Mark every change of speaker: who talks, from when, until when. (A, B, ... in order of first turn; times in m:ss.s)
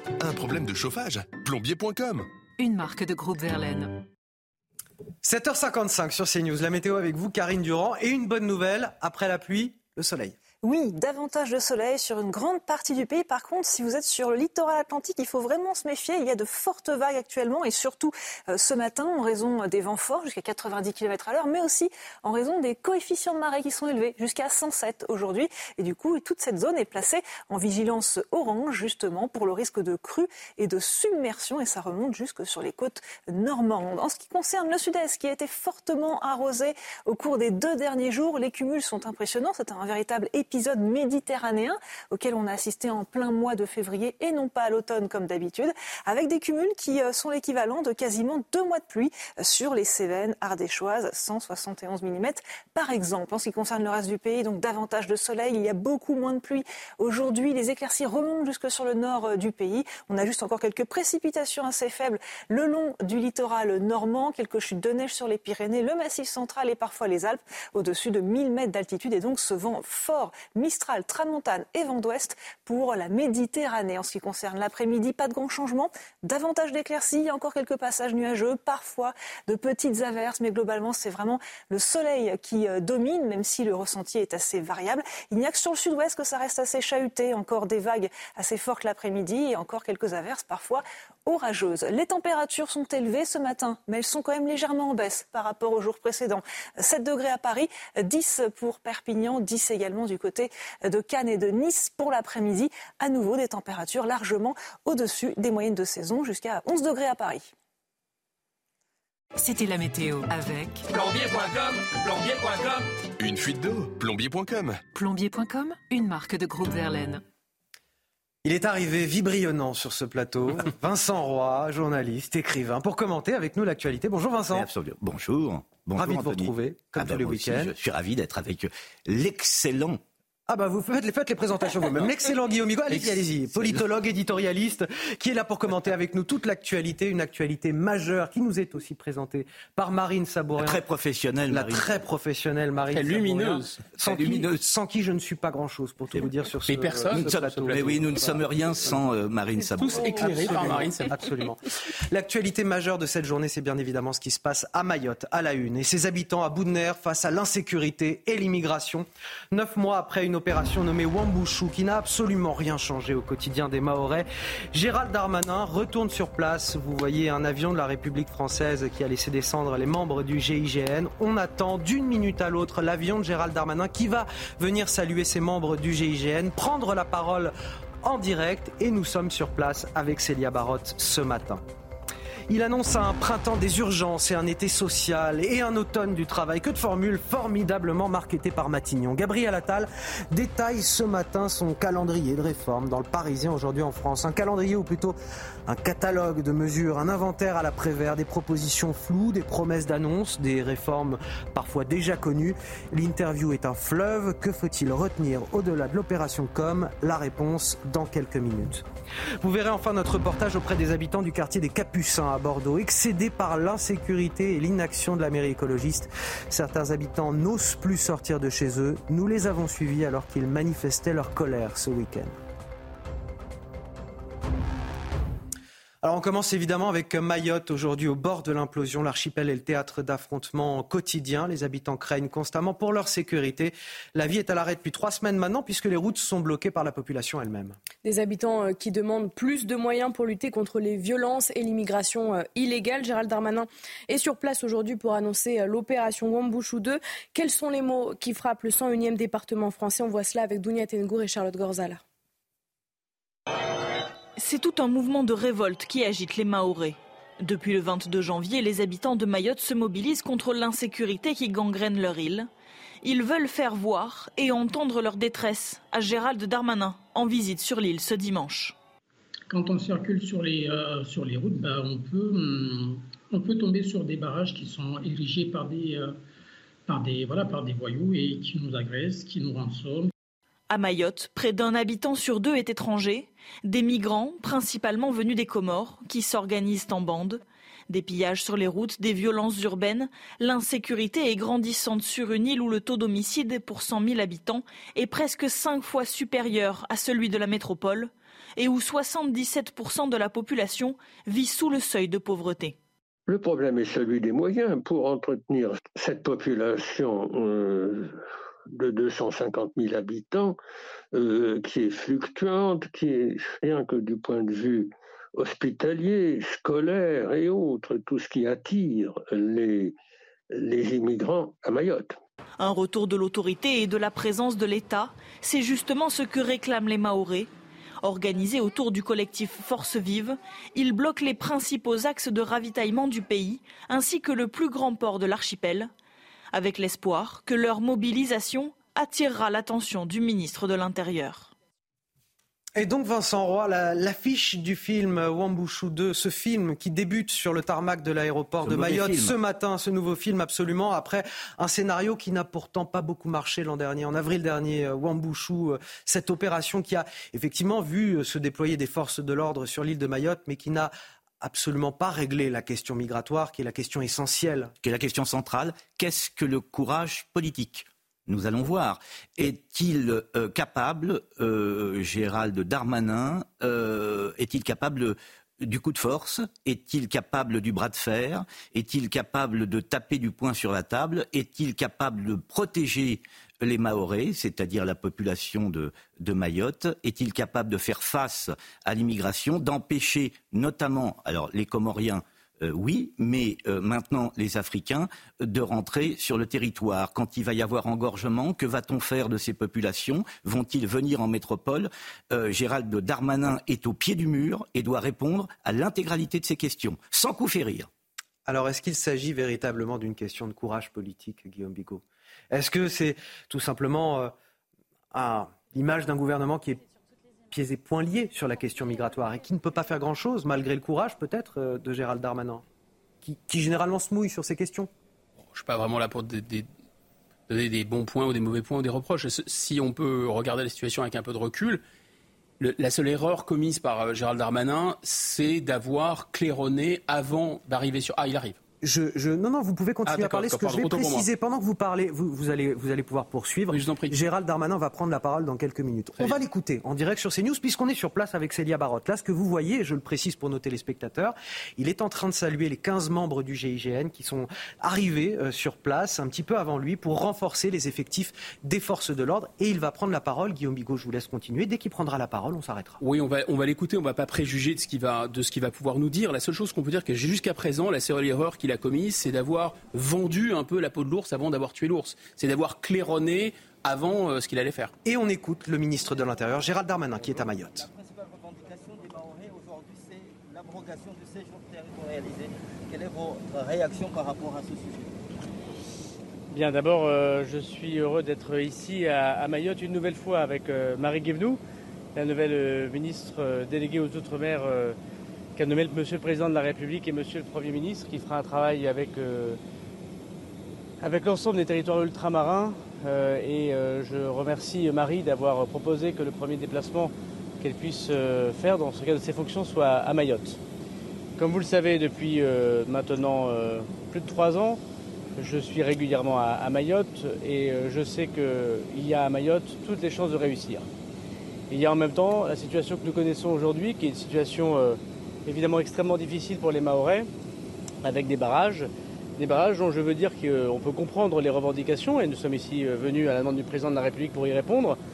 0:00.2-0:02.2 A
0:02.6-0:04.0 B
0:05.2-0:10.3 C
0:10.6-1:47.5 D
1:49.4-1:52.8 B
1:53.2-1:54.8 A
1:54.9-1:57.2 B
1:58.4-2:04.7 C
2:04.5-2:10.0 E
2:05.9-2:07.7 C
2:10.5-2:20.8 C
2:20.6-2:22.0 E
2:21.5-2:28.4 C
2:22.9-2:24.5 F
2:26.7-2:28.2 F
2:27.1-2:30.7 E
2:29.7-2:31.1 F
2:29.9-3:01.6 C
3:02.5-3:28.8 C
3:29.4-3:42.4 C
3:46.0-3:57.8 C
3:58.0-4:12.0 G
4:14.4-4:22.5 H
4:23.0-4:28.7 H
4:29.5-4:36.2 I
4:36.9-4:40.1 I
4:40.7-5:02.8 H
5:03.3-5:08.2 J
5:08.7-5:10.6 J
5:11.1-5:19.9 J
5:20.5-5:22.2 J
5:22.6-5:27.5 H
5:28.0-5:35.9 H
5:36.5-5:41.5 H
5:42.8-6:04.7 C
5:48.6-5:49.3 E
6:04.8-6:47.9 E
6:48.4-6:54.3 C
6:55.1-6:56.8 C
6:57.5-7:02.6 C
7:03.2-7:04.9 C
7:05.5-7:06.7 F
7:07.5-7:11.8 F
7:12.6-7:18.6 F
7:18.8-7:43.0 C
7:20.0-7:21.3 F
7:23.7-7:24.2 F
7:43.0-7:54.9 F
7:55.0-7:57.9 C
7:57.9-8:05.0 K
8:06.5-8:11.6 L
8:12.1-8:15.0 L
8:15.6-8:19.6 L
8:21.0-8:30.6 L
8:31.4-8:34.8 L
8:35.4-8:40.8 L
8:41.7-8:47.3 L
8:48.0-8:55.0 L